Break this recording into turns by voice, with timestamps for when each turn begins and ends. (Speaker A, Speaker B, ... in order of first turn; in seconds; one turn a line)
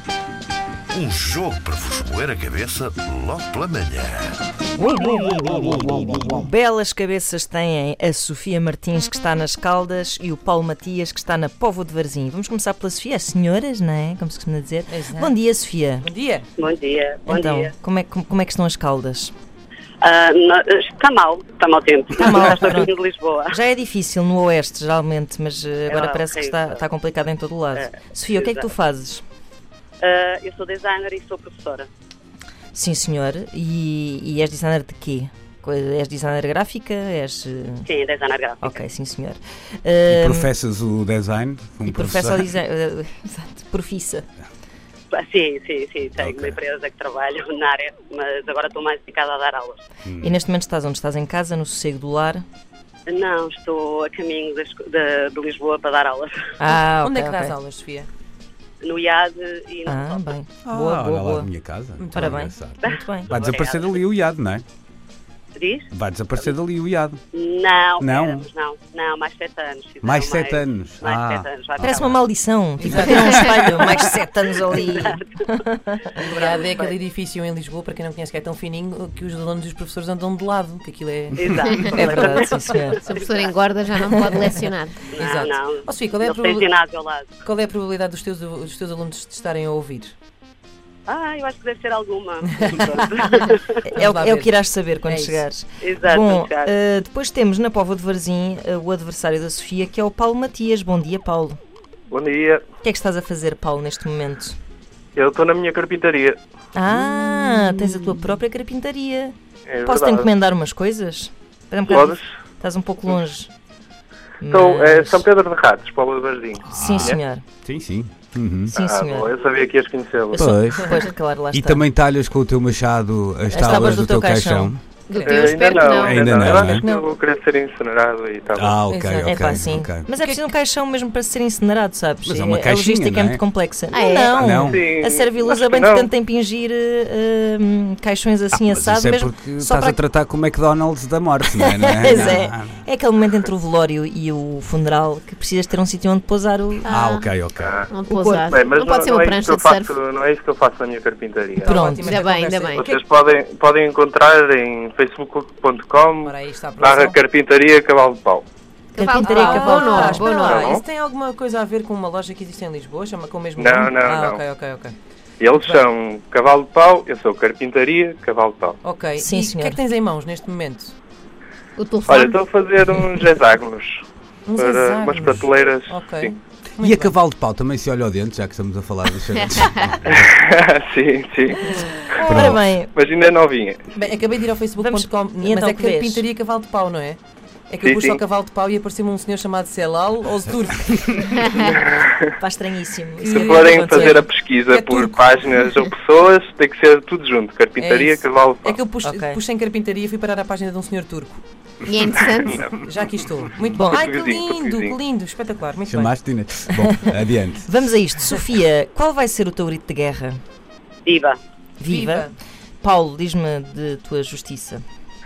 Speaker A: 0.9-4.4
Speaker B: 4.8-16.1
Speaker C: 14.9-15.3
Speaker C: 16.0-16.5
Speaker D: 16.6-17.7
Speaker B: 17.3-19.3
Speaker D: 20.0-23.5
Speaker B: 22.2-22.9
Speaker B: 23.5-29.2
Speaker D: 25.9-26.8
Speaker D: 27.7-28.7
Speaker D: 30.0-31.9
Speaker B: 32.7-37.9
Speaker D: 37.8-38.8
Speaker B: 38.6-40.5
Speaker E: 40.1-42.5
Speaker B: 41.9-44.3
Speaker D: 45.1-49.8
Speaker E: 46.2-46.6
Speaker E: 50.0-50.4
Speaker B: 50.2-52.4
Speaker D: 53.1-56.3
Speaker B: 56.6-57.5
Speaker C: 57.0-58.1
Speaker D: 58.8-60.3
Speaker B: 59.9-61.5
Speaker E: 60.6-64.6
Speaker C: 62.0-62.5
Speaker B: 62.1-63.3
Speaker D: 62.8-64.0
Speaker D: 65.5-65.9
Speaker E: 65.9-67.2
Speaker D: 67.3-72.4
Speaker E: 68.0-68.5
Speaker E: 70.0-72.1
Speaker B: 71.8-76.0
Speaker C: 72.8-73.7
Speaker D: 74.6-75.2
Speaker D: 76.2-76.9
Speaker C: 76.2-82.3
Speaker D: 81.3-83.5
Speaker B: 81.9-83.1
Speaker F: 83.0-85.1
Speaker B: 84.1-84.4
Speaker D: 85.1-87.3
Speaker C: 85.2-86.7
Speaker C: 87.4-90.1
Speaker D: 91.1-93.6
Speaker B: 93.8-101.6
Speaker C: 93.9-95.4
Speaker D: 95.8-96.7
Speaker G: 102.1-102.6
Speaker B: 102.8-104.6
Speaker G: 105.2-106.4
Speaker B: 106.7-113.5
Speaker G: 109.7-110.3
Speaker G: 111.8-112.2
Speaker B: 114.4-115.2
Speaker G: 114.5-117.2
Speaker E: 116.7-118.7
Speaker B: 116.7-117.4
Speaker B: 118.7-119.3
Speaker G: 118.7-120.5
Speaker B: 120.3-121.9
Speaker E: 120.3-121.0
Speaker E: 121.5-124.8
Speaker B: 123.5-124.7
Speaker F: 125.1-126.7
Speaker C: 125.1-125.6
Speaker G: 125.2-128.8
Speaker E: 125.9-126.9
Speaker C: 126.4-127.1
Speaker E: 128.5-130.1
Speaker C: 128.9-129.3
Speaker B: 129.2-140.0
Speaker E: 132.2-133.4
Speaker F: 133.9-134.6
Speaker E: 134.3-134.8
Speaker G: 134.6-136.1
Speaker E: 138.5-142.8
Speaker B: 141.5-146.9
Speaker F: 146.8-147.3
Speaker E: 146.9-147.8
Speaker G: 147.6-151.9
Speaker F: 147.9-149.9
Speaker C: 151.6-152.8
Speaker B: 151.6-152.2
Speaker F: 151.9-153.0
Speaker G: 152.8-158.4
Speaker C: 156.2-157.2
Speaker F: 158.9-160.8
Speaker B: 159.0-160.2
Speaker C: 159.2-164.9
Speaker G: 160.4-160.8
Speaker G: 163.6-164.4
Speaker G: 165.4-168.8
Speaker C: 165.6-165.8
Speaker C: 168.8-170.9
Speaker B: 169.2-169.8
Speaker F: 171.8-172.4
Speaker G: 172.1-174.0
Speaker C: 174.4-177.1
Speaker G: 174.6-176.3
Speaker E: 176.8-180.3
Speaker G: 180.1-183.9
Speaker B: 182.2-182.9
Speaker E: 182.2-182.6
Speaker C: 183.9-192.1
Speaker B: 184.8-186.2
Speaker G: 187.8-188.2
Speaker B: 192.4-194.3
Speaker C: 193.2-195.5
Speaker G: 193.2-198.8
Speaker C: 197.8-201.4
Speaker B: 199.0-199.4
Speaker F: 201.8-202.7
Speaker G: 202.1-202.8
Speaker C: 202.7-206.1
Speaker G: 203.8-204.9
Speaker E: 205.8-207.7
Speaker B: 206.9-210.4
Speaker D: 211.0-211.4
Speaker B: 211.8-212.3
Speaker C: 211.8-212.3
Speaker B: 212.8-214.8